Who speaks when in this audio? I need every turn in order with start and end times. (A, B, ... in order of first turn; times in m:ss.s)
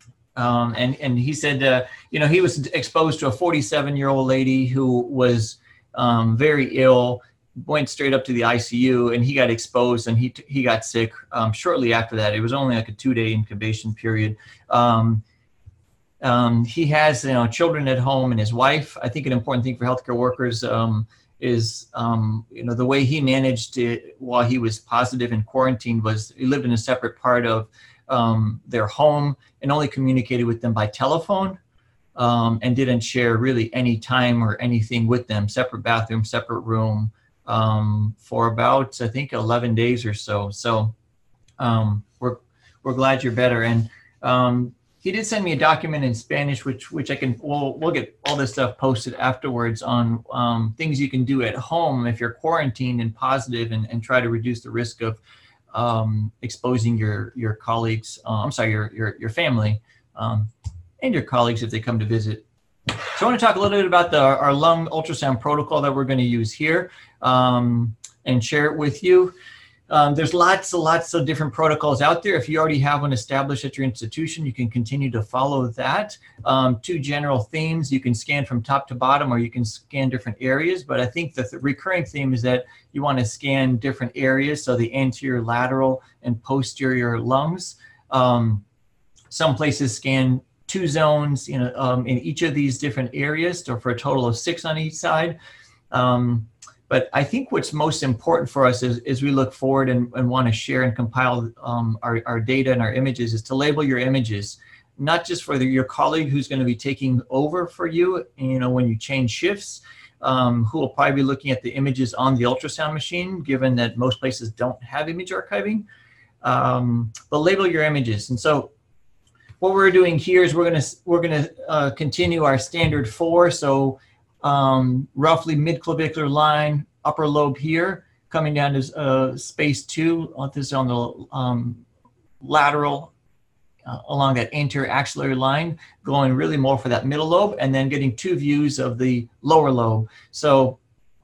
0:00.4-0:15.2 A
0:16.2-0:31.6 A
0:32.2-0:40.9 A
0:41.6-0:55.2 A
0:55.7-1:00.5 A
1:01.0-1:02.4 A
1:03.1-1:09.3 A
1:09.9-1:28.6 A
1:29.3-1:35.4 A
1:35.9-1:55.8 A
1:56.4-1:58.7 A
1:59.6-2:11.8 A
2:12.4-2:13.1 A
2:13.9-2:20.8 A